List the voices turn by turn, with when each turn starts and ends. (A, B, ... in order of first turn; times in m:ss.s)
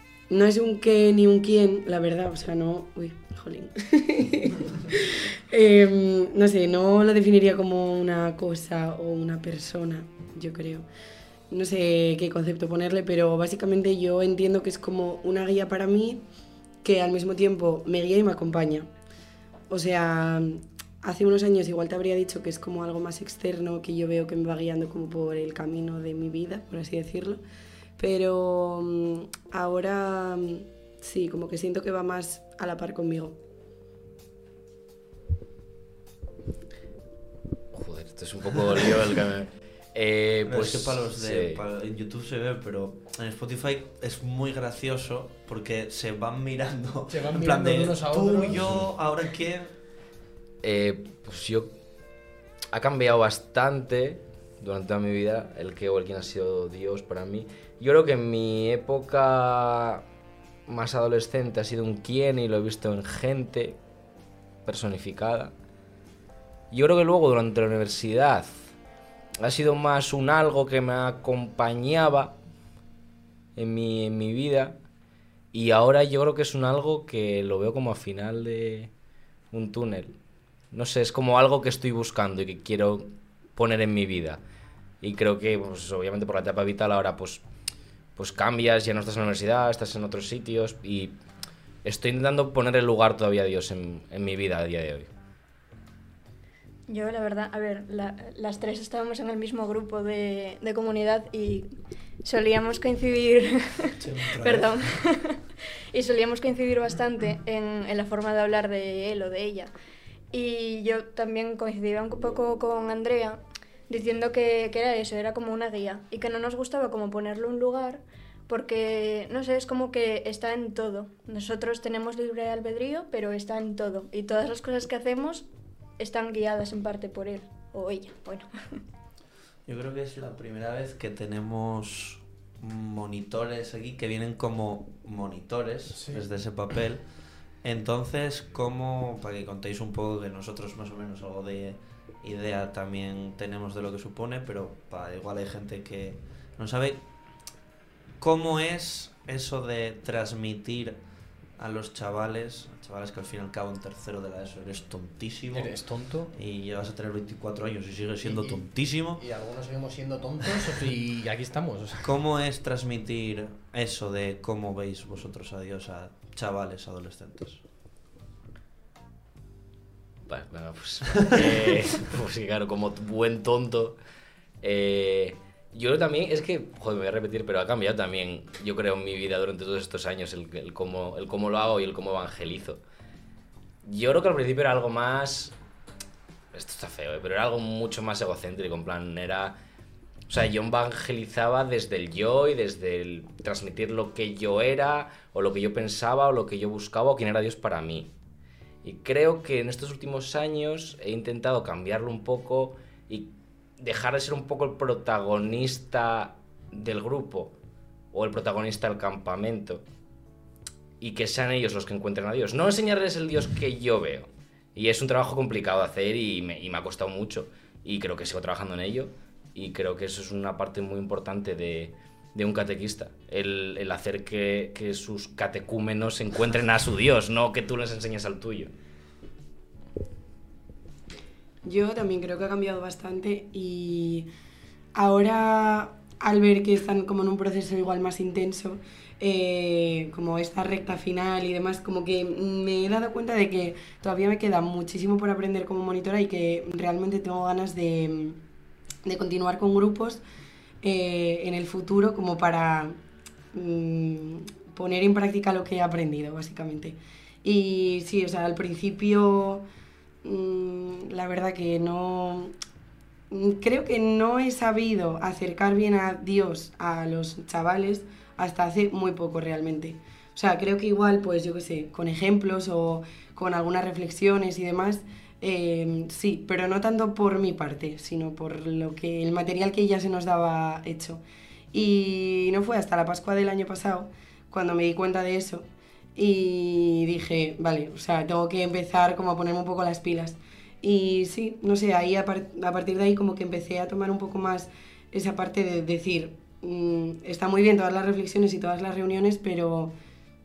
0:00.3-0:10.8 A
0:11.5-0:16.2 A
0:16.8-0:18.9 A
0:19.7-0:27.4 A
0:28.0-0:33.4 A
0:37.7-0:41.6 B
0:40.4-0:49.7 C
0:47.1-0:48.6 D
0:48.6-0:48.8 B
0:50.6-0:51.7 B
0:52.7-1:00.0 B
1:00.7-1:03.8 B
1:04.6-1:05.5 B
1:06.7-1:08.7 B
1:09.4-1:12.3 B
1:13.6-1:14.8 B
1:15.5-1:18.9 B
1:19.5-1:20.1 B
1:20.7-1:24.4 B
1:25.0-1:27.4 B
1:28.2-1:31.1 B
1:31.8-1:35.1 B
1:36.9-1:41.7 E
1:42.2-1:49.7 E
1:44.0-1:45.0 C
1:50.3-2:05.4 E
2:06.0-2:08.8 E
2:09.6-2:27.0 C
2:15.9-2:16.2 D
2:28.2-2:31.0 C
2:31.6-2:39.2 C
2:35.5-2:36.3 D
2:38.2-2:42.1 D
2:42.0-2:47.6 C
2:50.3-2:54.0 B
2:54.6-3:02.8 B
3:03.8-3:05.5 B
3:06.5-3:09.6 B
3:10.3-3:18.1 B
3:18.8-3:27.5 B
3:28.1-3:29.8 B
3:31.0-3:48.7 B
3:51.6-3:54.3 A
3:54.9-4:08.4 A
4:09.0-4:10.2 A
4:10.8-4:13.0 A
4:13.5-4:19.6 A
4:20.2-4:22.5 A
4:23.3-4:41.2 A
4:41.7-4:59.9 A